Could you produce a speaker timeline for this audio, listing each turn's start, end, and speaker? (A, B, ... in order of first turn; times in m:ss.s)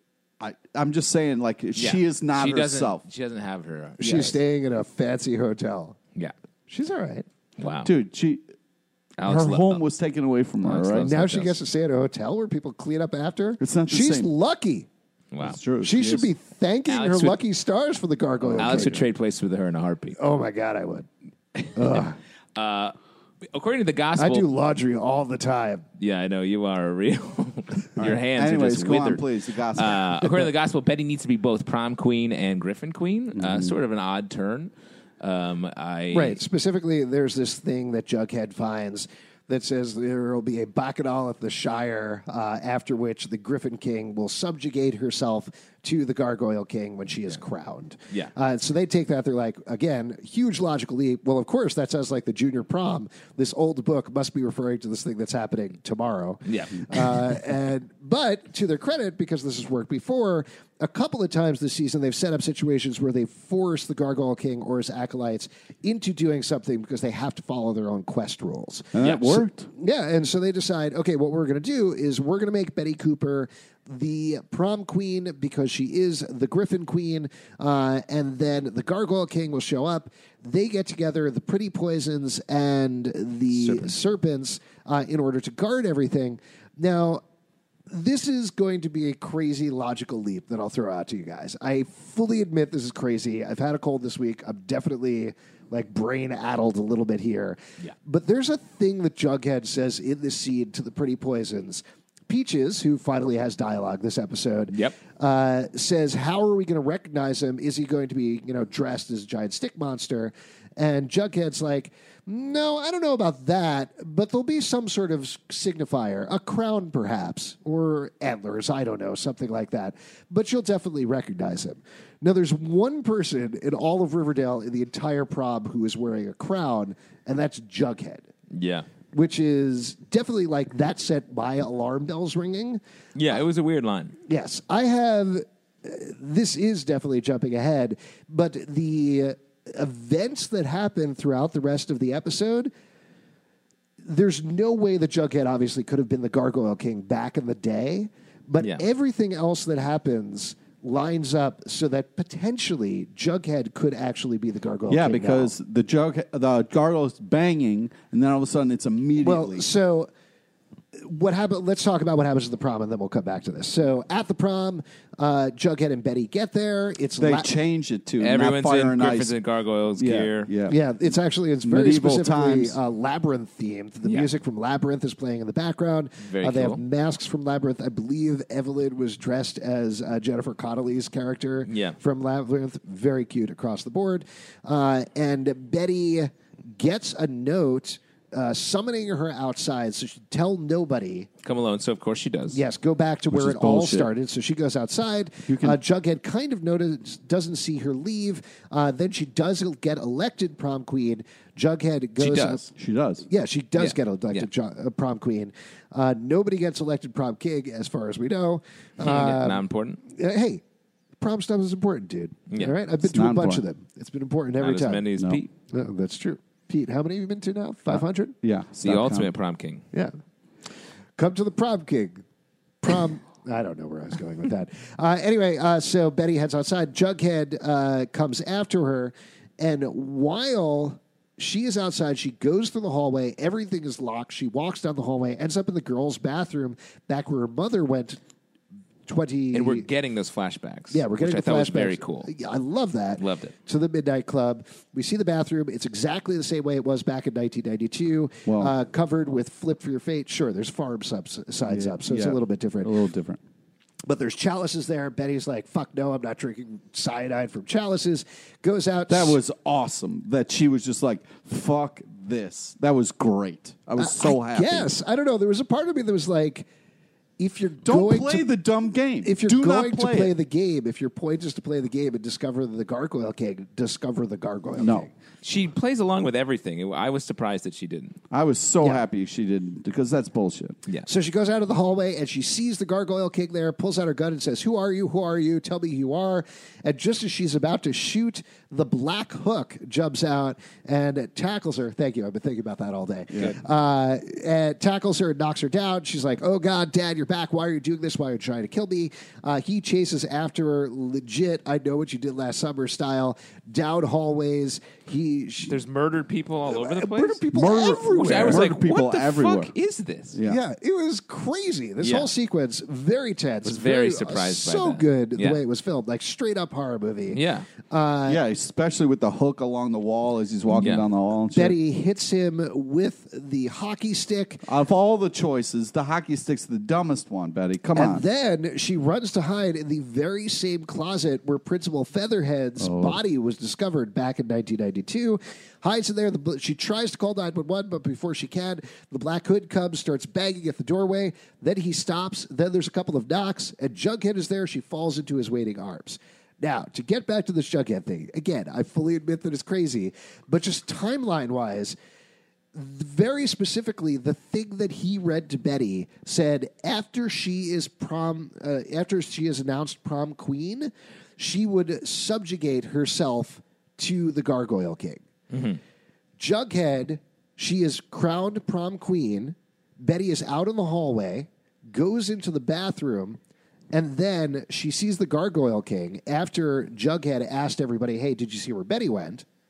0:00.4-0:03.0 A
0:01.8-0:04.4 B
0:04.0-0:06.0 C
0:06.7-0:07.3 C
0:07.6-0:07.9 B
0:07.8-0:08.4 A
0:09.2-0:09.8 B
0:09.2-0:11.2 A
0:10.6-0:11.6 B
0:11.0-0:14.9 C
0:13.6-0:14.3 A
0:15.3-0:15.6 B
0:15.4-0:16.3 A
0:15.8-0:19.0 C
0:16.9-0:17.4 B
0:18.4-0:19.0 A
0:18.6-0:20.2 B
0:20.2-0:21.1 C
0:21.6-0:23.0 B
0:21.7-0:22.2 C
0:23.5-0:24.5 B
0:24.2-0:25.8 C
0:26.0-0:29.2 B
0:28.0-0:30.3 A
0:29.8-0:36.4 B
0:33.4-0:33.7 A
0:36.1-1:27.2 C
0:56.5-0:57.3 B
1:08.9-1:09.7 A
1:09.0-1:09.3 B
1:27.9-2:08.3 C
1:44.7-1:45.0 B
2:08.5-2:08.9 B
2:09.1-2:12.8 C
2:13.2-2:14.2 B
2:14.3-2:22.7 C
2:24.0-2:35.5 C
2:34.9-2:39.7 A
2:39.2-2:40.1 C
2:41.0-2:47.5 C
2:47.2-2:49.3 A
2:48.2-2:50.5 B
2:50.0-2:50.8 A
2:50.7-3:11.3 C
2:51.6-2:52.8 A
2:56.2-2:56.8 B
3:01.7-3:02.0 B
3:11.4-3:12.6 B
3:12.5-3:22.7 C
3:13.3-3:14.1 A
3:15.5-3:15.8 A
3:22.2-3:22.7 B
3:22.8-3:23.3 A
3:23.3-3:30.6 C
3:23.8-3:24.5 B
3:29.0-3:30.0 B
3:31.2-3:35.0 C
3:33.0-3:33.6 A
3:34.6-3:35.5 B
3:35.7-3:38.4 C
3:38.4-3:39.3 A
3:38.8-3:39.8 B
3:41.2-3:42.2 C
3:42.8-3:58.2 C
3:59.1-3:59.9 C
3:59.5-4:02.3 B
4:00.9-4:12.9 C
4:03.2-4:03.5 B
4:08.5-4:08.7 A
4:11.7-4:13.4 A
4:14.1-4:19.4 C
4:19.1-4:24.9 A
4:24.0-4:26.7 C
4:27.4-4:28.5 C
4:27.8-4:30.3 A
4:29.2-4:35.1 C
4:34.8-4:35.1 A
4:35.4-4:38.2 B
4:38.3-4:40.8 A
4:41.1-5:05.8 C
5:05.7-5:10.4 B
5:06.7-5:08.7 C
5:07.5-5:09.7 A
5:10.3-5:10.6 A
5:10.5-5:18.4 C
5:12.0-5:12.3 B
5:13.6-5:15.6 B
5:17.3-5:17.7 B
5:18.3-5:21.8 A
5:20.7-5:21.0 B
5:21.5-5:24.6 C
5:24.6-5:28.2 A
5:27.9-5:52.0 C
5:32.8-5:33.2 A
5:52.7-6:05.2 C
6:05.5-6:05.8 B
6:06.4-6:13.4 C
6:13.9-6:19.4 C